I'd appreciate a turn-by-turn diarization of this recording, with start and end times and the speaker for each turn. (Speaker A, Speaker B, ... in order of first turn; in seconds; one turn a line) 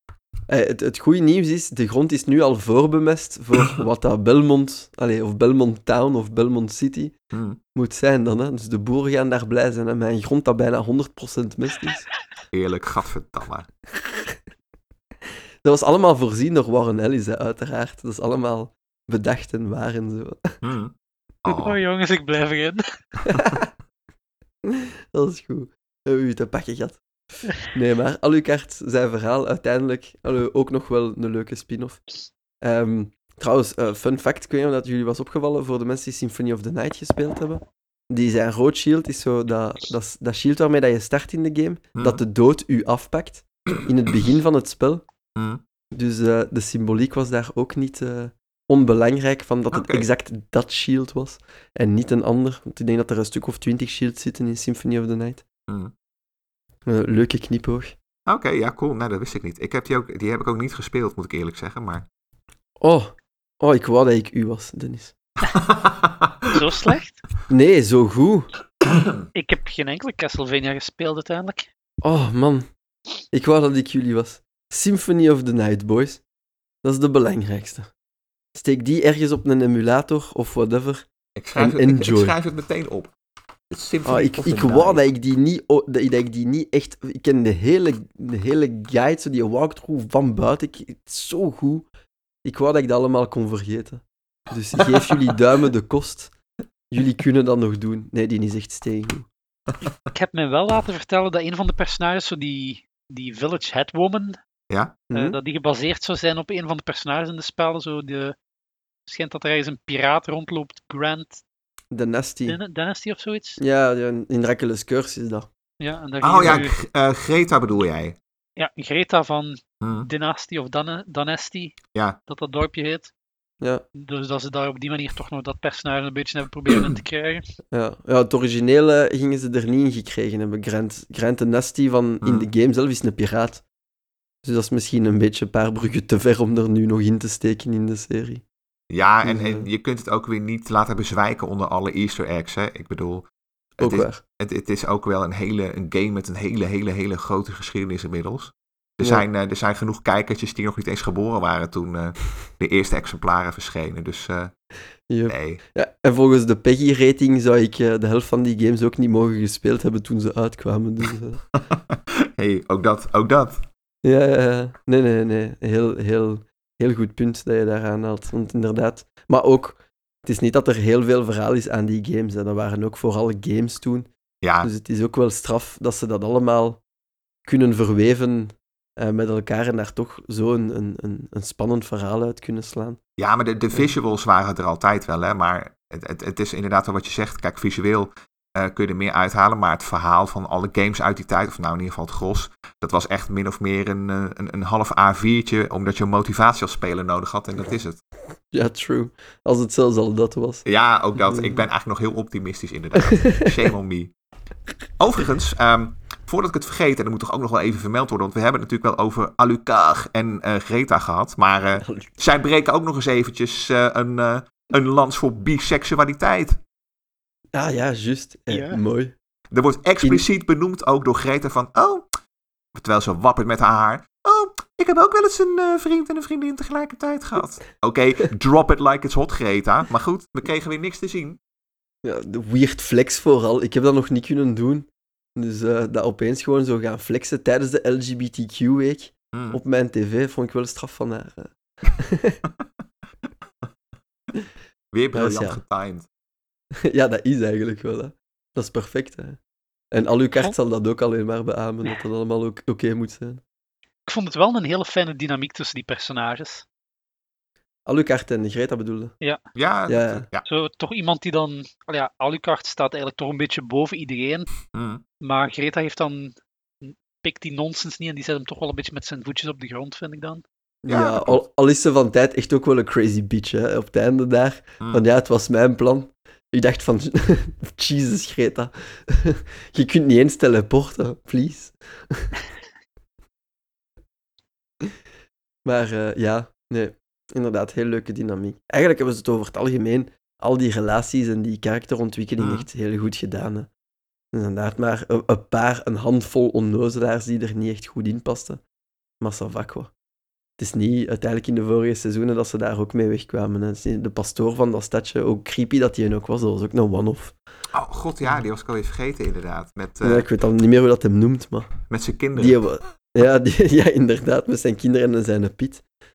Speaker A: 0.5-7.1
Speaker B: 7.3-7.6
Speaker A: 7.7-12.1
Speaker B: 12.5-13.7
Speaker A: 15.6-20.6
Speaker B: 20.6-20.9
Speaker B: 21.4-21.8
Speaker C: 21.5-23.1
Speaker A: 23.3-23.7
Speaker A: 24.7-27.0
Speaker A: 27.6-32.0
Speaker A: 32.6-45.0
Speaker B: 41.9-42.2
Speaker B: 45.4-45.6
Speaker A: 45.9-55.4
Speaker B: 49.7-50.0
Speaker A: 56.9-57.9
Speaker B: 58.3-62.0
Speaker A: 62.8-65.1
Speaker B: 65.5-66.5
Speaker C: 66.5-67.2
Speaker A: 67.5-68.5
Speaker B: 68.8-69.1
Speaker C: 69.3-71.7
Speaker A: 72.0-72.7
Speaker A: 73.3-76.2
Speaker A: 76.8-77.9
Speaker A: 78.5-82.3
Speaker B: 81.3-83.1
Speaker B: 83.7-85.0
Speaker A: 84.0-91.9
Speaker A: 92.4-96.3
Speaker A: 96.9-99.3
Speaker C: 100.1-104.4
Speaker B: 104.7-105.0
Speaker A: 105.1-105.4
Speaker C: 105.1-108.3
Speaker C: 109.1-111.4
Speaker A: 111.9-112.6
Speaker C: 112.5-113.6
Speaker A: 113.6-115.5
Speaker C: 115.8-116.8
Speaker B: 116.2-118.2
Speaker C: 118.6-121.8
Speaker B: 119.8-120.1
Speaker C: 122.3-123.1
Speaker C: 123.9-127.4
Speaker A: 127.7-133.6
Speaker B: 132.2-132.5
Speaker A: 134.4-138.4
Speaker B: 138.9-143.2
Speaker A: 139.2-139.7
Speaker B: 143.8-154.5
Speaker A: 143.8-144.2
Speaker A: 149.0-149.2
Speaker A: 155.1-161.4
Speaker B: 155.3-155.6
Speaker B: 162.4-163.6
Speaker A: 164.0-174.1
Speaker B: 174.4-174.7
Speaker A: 174.6-176.8
Speaker A: 177.4-183.0
Speaker B: 183.2-198.0
Speaker A: 198.5-200.6
Speaker B: 200.6-204.1
Speaker A: 201.2-201.6
Speaker B: 205.0-216.6
Speaker A: 217.5-219.1
Speaker C: 218.5-218.8
Speaker B: 219.5-222.0
Speaker B: 222.7-231.4
Speaker A: 232.0-242.4
Speaker B: 239.3-239.6
Speaker B: 244.9-246.1
Speaker A: 245.1-245.6
Speaker A: 246.8-249.4
Speaker A: 249.9-253.4
Speaker C: 254.1-256.6
Speaker A: 257.9-259.1
Speaker B: 259.5-260.4
Speaker A: 259.9-260.3
Speaker C: 260.4-264.5
Speaker B: 264.7-265.0
Speaker C: 265.2-270.4
Speaker A: 270.8-282.3
Speaker B: 270.9-271.4
Speaker A: 285.6-293.7
Speaker B: 292.4-292.7
Speaker A: 294.3-298.6
Speaker A: 299.2-299.9
Speaker A: 300.6-307.3
Speaker B: 307.7-310.3
Speaker A: 310.0-311.7
Speaker B: 311.9-312.6
Speaker A: 312.4-315.8